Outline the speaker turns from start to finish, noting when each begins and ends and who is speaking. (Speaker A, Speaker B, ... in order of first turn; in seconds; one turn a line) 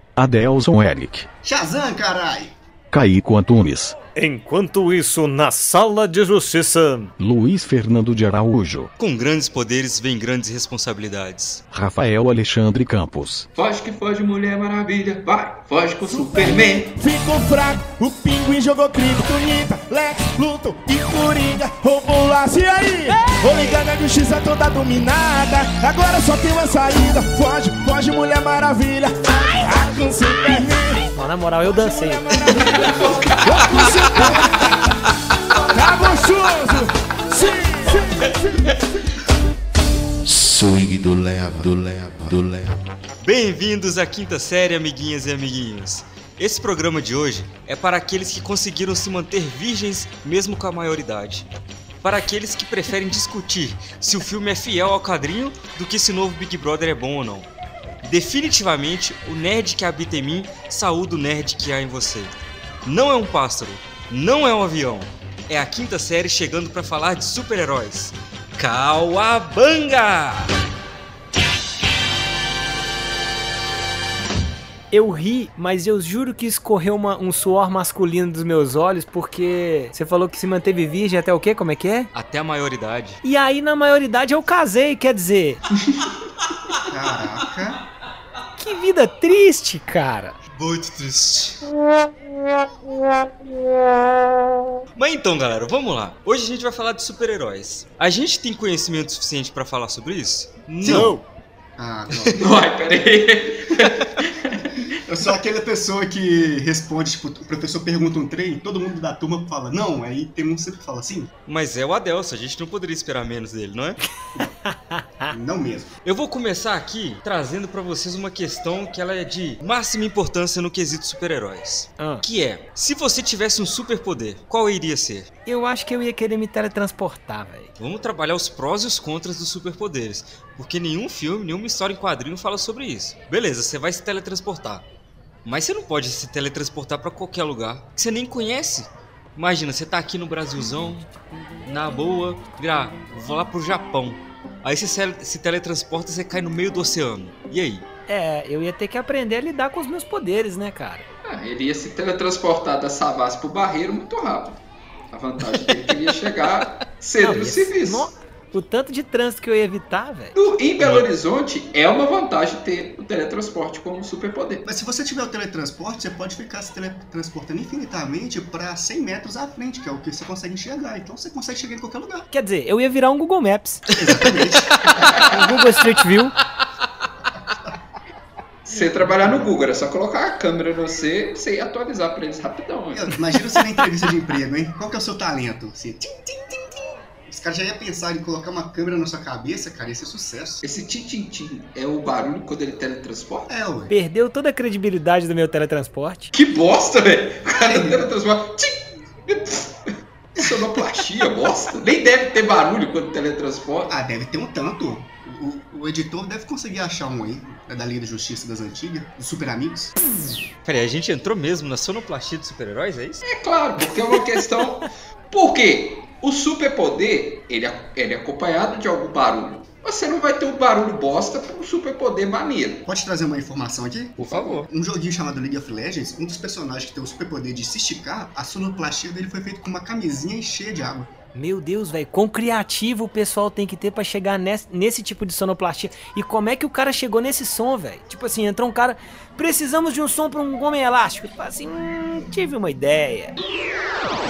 Speaker A: 0.1-1.2
Speaker B: 1.4-2.5
Speaker A: 2.9-3.9
Speaker C: 4.2-7.1
Speaker A: 7.2-8.9
Speaker D: 9.0-11.6
Speaker A: 11.7-13.4
Speaker E: 13.5-16.9
Speaker F: 16.0-31.1
Speaker C: 31.1-32.2
Speaker F: 31.6-34.9
Speaker E: 32.5-34.2
Speaker F: 35.6-38.8
Speaker G: 40.3-42.8
Speaker D: 43.2-51.5
Speaker D: 52.0-57.5
Speaker D: 58.0-70.5
Speaker C: 74.9-82.1
Speaker D: 82.1-83.2
Speaker C: 83.2-85.6
Speaker B: 86.9-87.8
Speaker C: 88.6-90.4
Speaker D: 90.5-91.6
Speaker D: 95.0-101.1
Speaker B: 100.8-101.2
Speaker C: 100.8-101.2
Speaker B: 101.8-102.4
Speaker E: 102.3-104.6
Speaker B: 105.0-111.3
Speaker D: 111.5-114.0
Speaker C: 114.7-115.3
Speaker B: 115.3-115.9
Speaker D: 116.0-125.3
Speaker C: 122.0-122.2
Speaker C: 125.5-127.7
Speaker D: 127.8-134.8
Speaker D: 135.4-141.1
Speaker D: 141.6-147.8
Speaker C: 148.1-151.1
Speaker E: 151.2-158.1
Speaker C: 157.2-160.3
Speaker E: 160.3-164.7
Speaker D: 160.8-161.1
Speaker B: 164.6-172.3
Speaker C: 172.3-173.8
Speaker B: 173.9-175.3
Speaker E: 175.0-175.3
Speaker C: 175.2-176.3
Speaker E: 178.7-183.2
Speaker B: 179.0-179.4
Speaker B: 182.9-190.6
Speaker E: 190.6-193.5
Speaker B: 193.5-193.9
Speaker C: 193.9-196.3
Speaker E: 196.3-203.9
Speaker B: 197.5-198.1
Speaker B: 200.4-200.8
Speaker B: 203.9-209.9
Speaker D: 210.6-213.2
Speaker E: 213.2-222.8
Speaker B: 222.8-231.1
Speaker D: 224.2-224.7
Speaker C: 231.3-243.3